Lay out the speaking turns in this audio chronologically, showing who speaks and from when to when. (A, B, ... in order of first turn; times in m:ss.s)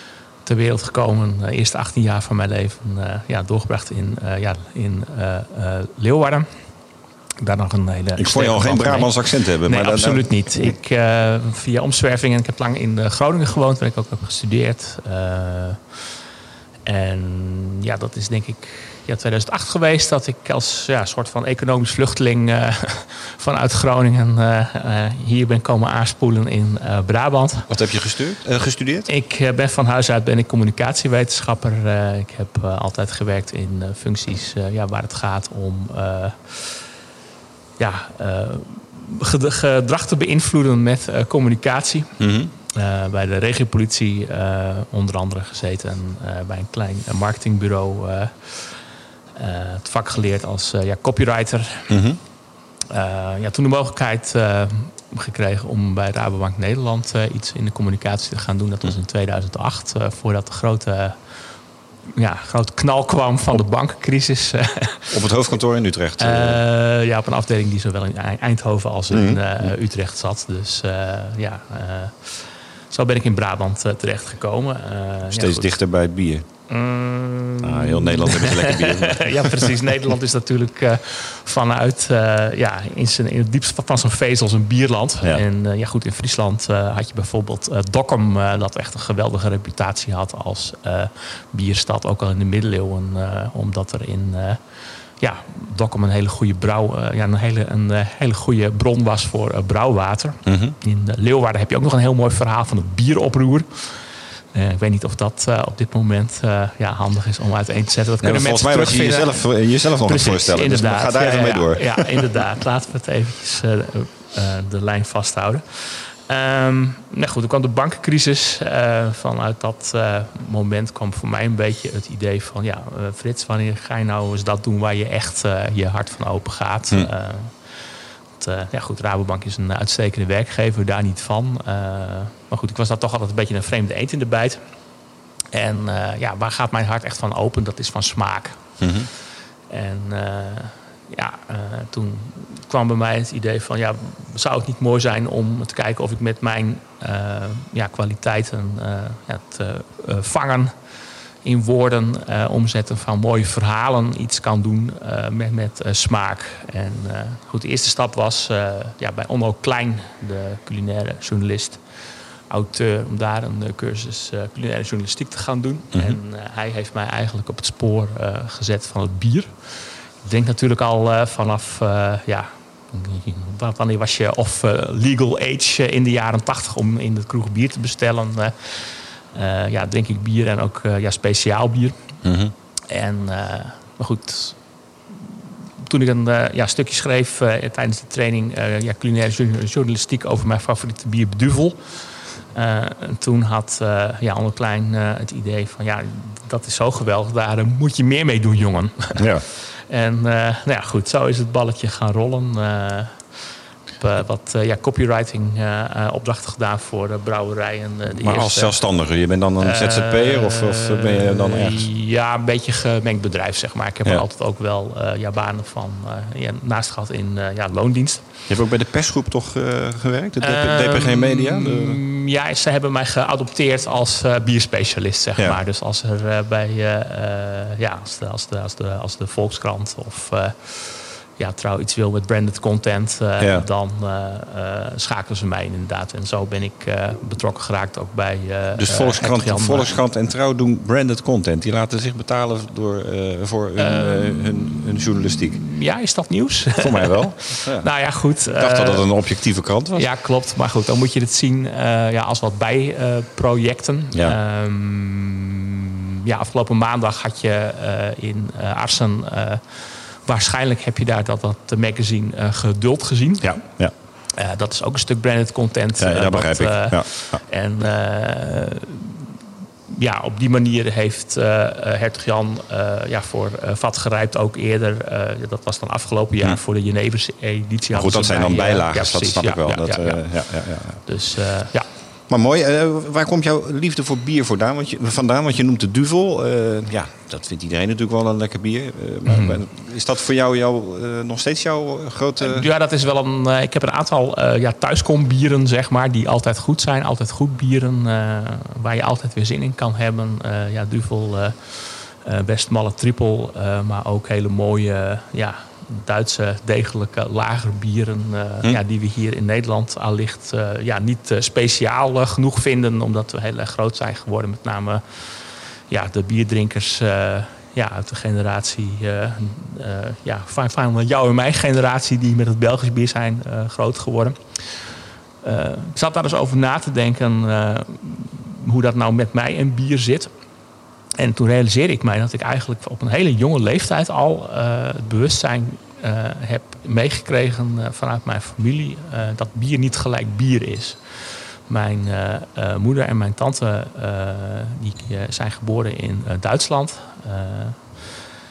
0:00.4-0:06.5 A
0:07.4-0:15.8 A
0:08.2-0:10.7 B
0:16.8-0:27.7 A
0:27.7-0:29.1 B
0:29.1-0:36.8 A
0:37.8-0:42.1 A
0:42.2-0:42.5 B
0:42.7-0:48.8 A
0:49.4-0:52.0 A
0:51.9-0:52.2 B
0:52.9-1:01.2 A
1:02.2-1:05.1 A
1:05.1-1:06.6 B
1:06.2-1:15.8 A
1:09.1-1:09.7 B
1:15.3-1:16.4 B
1:16.7-1:34.6 A
1:17.6-1:19.7 B
1:35.2-2:07.7 A
1:40.4-1:40.8 B
1:48.2-1:52.4 B
2:08.4-2:14.6 A
2:15.5-2:18.6 A
2:18.8-2:19.1 B
2:19.7-2:30.7 A
2:31.4-2:41.8 A
2:42.5-3:01.9 A
2:45.9-2:46.2 B
3:02.2-3:02.5 B
3:02.9-3:04.6 A
3:05.8-3:23.2 A
3:19.2-3:19.4 B
3:24.0-3:28.8 A
3:28.1-3:31.9 B
3:29.6-3:38.2 A
3:38.5-3:42.0 B
3:40.4-3:59.9 A
3:53.4-3:53.6 B
3:58.8-4:05.6 B
4:03.8-4:09.1 A
4:06.8-4:07.9 B
4:08.5-4:10.1 B
4:09.9-4:23.6 A
4:23.4-4:23.9 B
4:24.4-4:29.3 A
4:26.0-4:27.4 B
4:29.9-4:40.4 A
4:37.9-4:41.0 B
4:41.0-4:41.8 A
4:42.3-4:52.7 B
4:49.2-4:49.6 A
4:52.4-5:30.3 A
5:31.2-5:48.2 A